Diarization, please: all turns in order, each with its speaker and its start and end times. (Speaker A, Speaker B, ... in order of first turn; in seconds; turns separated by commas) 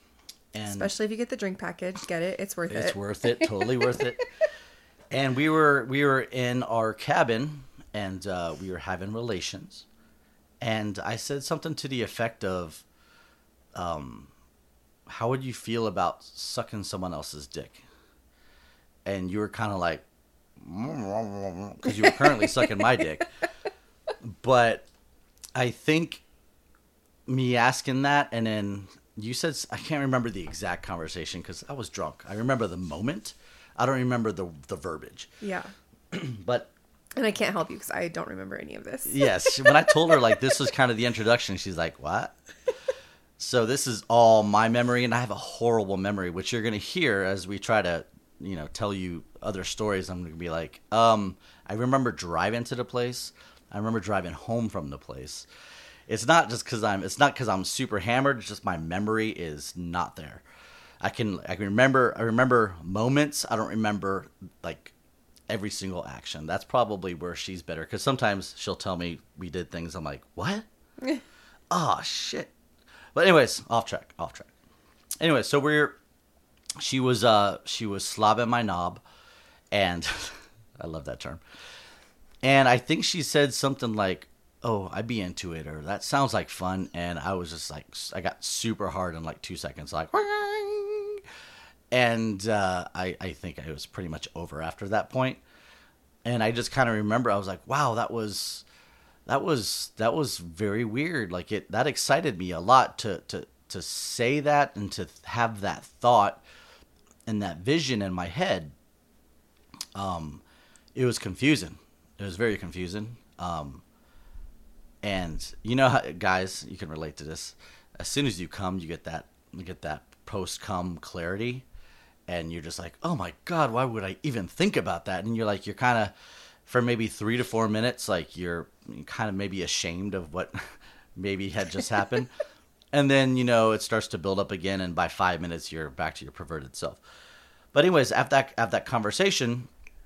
Speaker A: 0.5-0.9, Speaker B: 0.7-4.0, Speaker A: 2.7-4.2, Speaker A: 5.1-9.8, Speaker A: 10.6-12.8, Speaker A: 13.8-14.3, Speaker A: 15.1-17.8, Speaker A: 19.1-20.0, Speaker A: 20.6-23.4, Speaker B: 21.8-23.0, Speaker A: 24.2-24.9, Speaker A: 25.5-26.2, Speaker A: 27.3-35.3, Speaker B: 35.4-35.7, Speaker A: 36.1-36.7, Speaker B: 37.1-40.5, Speaker A: 39.0-42.3, Speaker A: 43.4-55.4, Speaker A: 56.1-60.4, Speaker A: 61.0-64.9, Speaker A: 65.5-70.7, Speaker A: 71.7-72.5, Speaker A: 73.1-74.5, Speaker A: 75.2-76.0, Speaker A: 76.8-79.0, Speaker A: 79.7-81.4, Speaker A: 82.4-91.2, Speaker A: 91.9-95.4, Speaker A: 96.2-98.6, Speaker A: 99.3-106.4, Speaker A: 107.2-108.7, Speaker A: 109.9-110.4, Speaker A: 111.0-113.8, Speaker A: 115.0-121.6, Speaker A: 122.3-126.1, Speaker A: 126.7-132.3, Speaker A: 132.9-137.0, Speaker A: 137.7-139.7